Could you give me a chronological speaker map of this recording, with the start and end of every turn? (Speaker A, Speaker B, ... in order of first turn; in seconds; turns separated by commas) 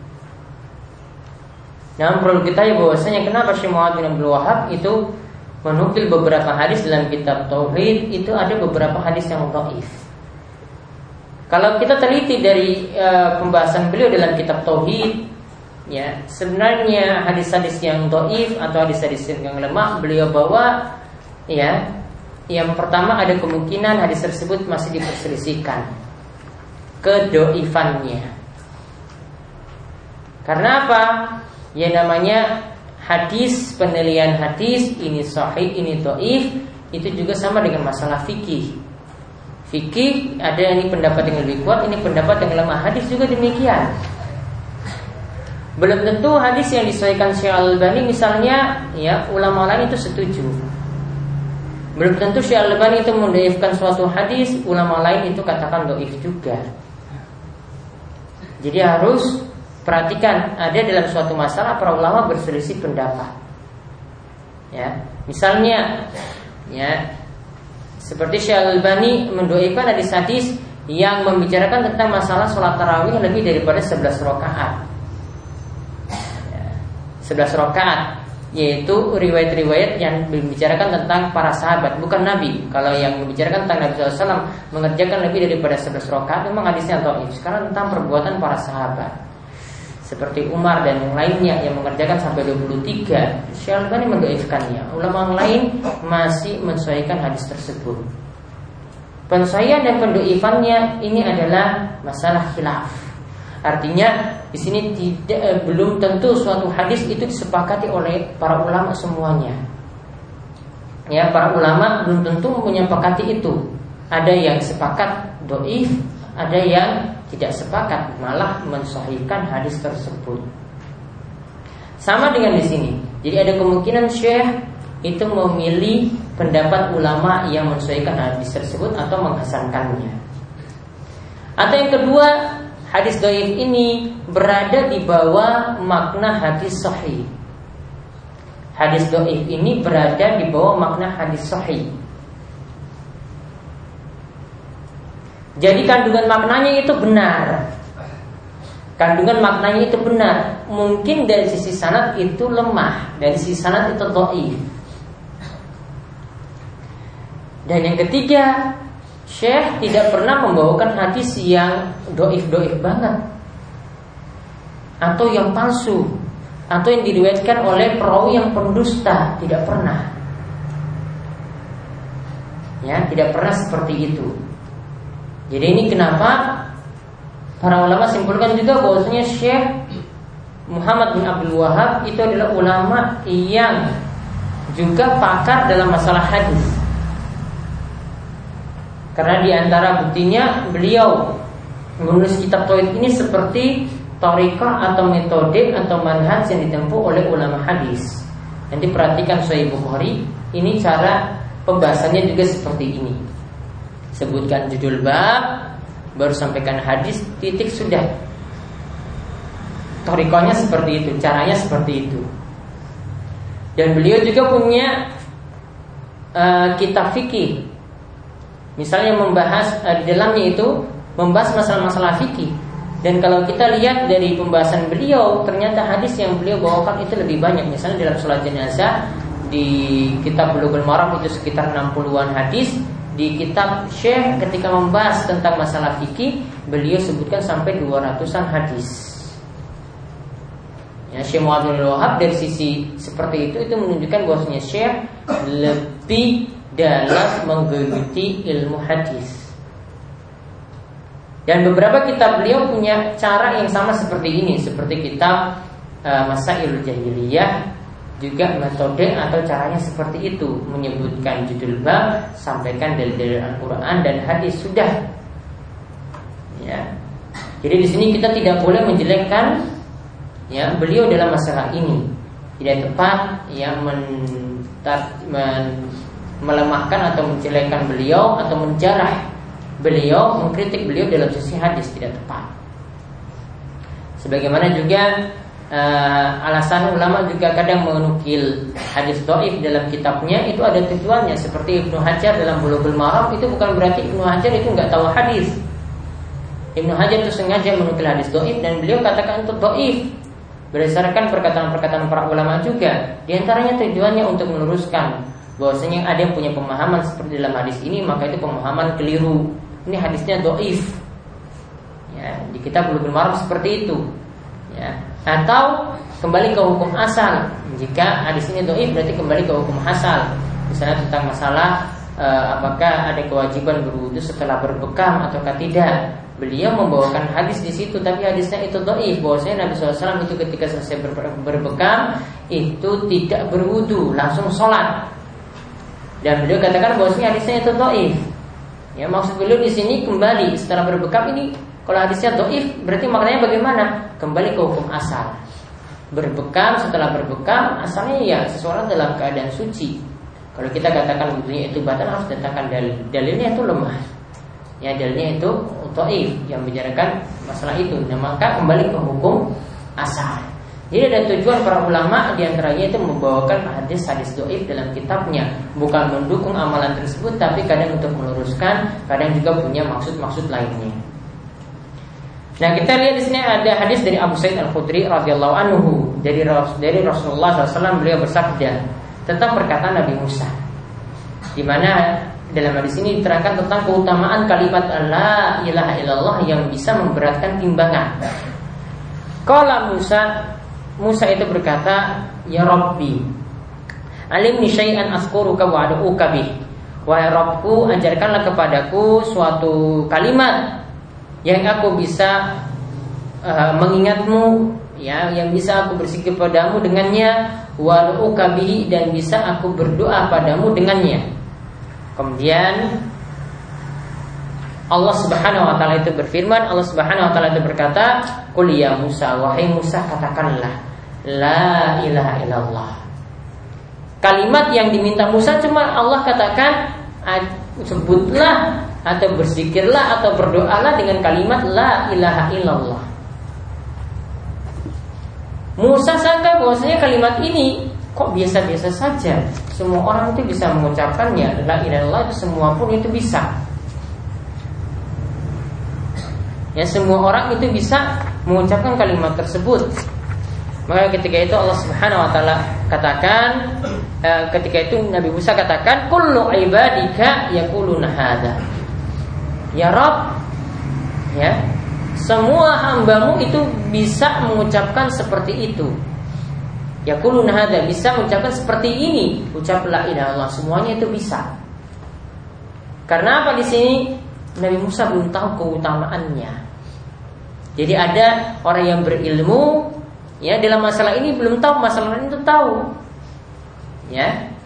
Speaker A: 2.0-5.0, Speaker A: 5.6-10.0, Speaker A: 11.5-15.3, Speaker A: 15.9-20.9, Speaker A: 21.5-21.9, Speaker A: 22.5-25.9, Speaker A: 27.0-28.3, Speaker A: 30.4-38.8, Speaker A: 39.7-43.9, Speaker A: 45.8-50.6, Speaker A: 52.0-56.6, Speaker A: 58.6-63.3, Speaker A: 64.7-66.1, Speaker A: 66.7-67.0, Speaker A: 68.0-74.8, Speaker A: 76.5-89.1, Speaker A: 90.0-98.0, Speaker A: 99.3-103.1, Speaker A: 103.6-109.6, Speaker A: 111.1-120.4, Speaker A: 122.0-130.2, Speaker A: 131.6-137.3, Speaker A: 138.8-141.9, Speaker A: 145.6-147.7, Speaker A: 149.0-154.6, Speaker A: 157.7-158.7, Speaker A: 159.2-163.2, Speaker A: 165.0-166.2, Speaker A: 166.7-170.1, Speaker A: 172.8-174.3, Speaker A: 175.5-176.7, Speaker A: 177.6-179.8, Speaker A: 180.7-183.9, Speaker A: 184.7-186.8, Speaker A: 189.2-191.4, Speaker A: 192.0-203.2, Speaker A: 204.1-208.1, Speaker A: 210.0-212.2, Speaker A: 213.8-215.1, Speaker A: 216.3-217.7, Speaker A: 218.8-228.9, Speaker A: 229.5-239.4, Speaker A: 241.1-249.5, Speaker A: 251.5-255.5, Speaker A: 256.0-257.6, Speaker A: 258.2-265.0, Speaker A: 266.5-266.9, Speaker A: 267.6-269.6, Speaker A: 270.5-272.1, Speaker A: 272.6-279.3, Speaker A: 279.8-282.5, Speaker A: 284.2-285.1, Speaker A: 285.7-295.6, Speaker A: 296.8-300.1, Speaker A: 300.7-311.0, Speaker A: 312.1-314.0, Speaker A: 314.7-335.1, Speaker A: 336.2-338.2, Speaker A: 338.9-345.4, Speaker A: 346.1-350.0, Speaker A: 350.5-354.0, Speaker A: 354.8-371.0, Speaker A: 372.6-380.5, Speaker A: 381.6-388.2, Speaker A: 389.5-393.3, Speaker A: 394.3-396.5, Speaker A: 397.1-400.8, Speaker A: 401.4-402.6, Speaker A: 403.4-411.2, Speaker A: 412.2-413.0, Speaker A: 414.9-423.0, Speaker A: 424.2-433.1, Speaker A: 435.8-443.5, Speaker A: 446.8-450.0, Speaker A: 450.9-458.6, Speaker A: 459.7-460.4, Speaker A: 461.3-461.6, Speaker A: 462.1-466.0, Speaker A: 467.1-471.5, Speaker A: 473.1-476.6, Speaker A: 477.8-482.9, Speaker A: 484.1-484.4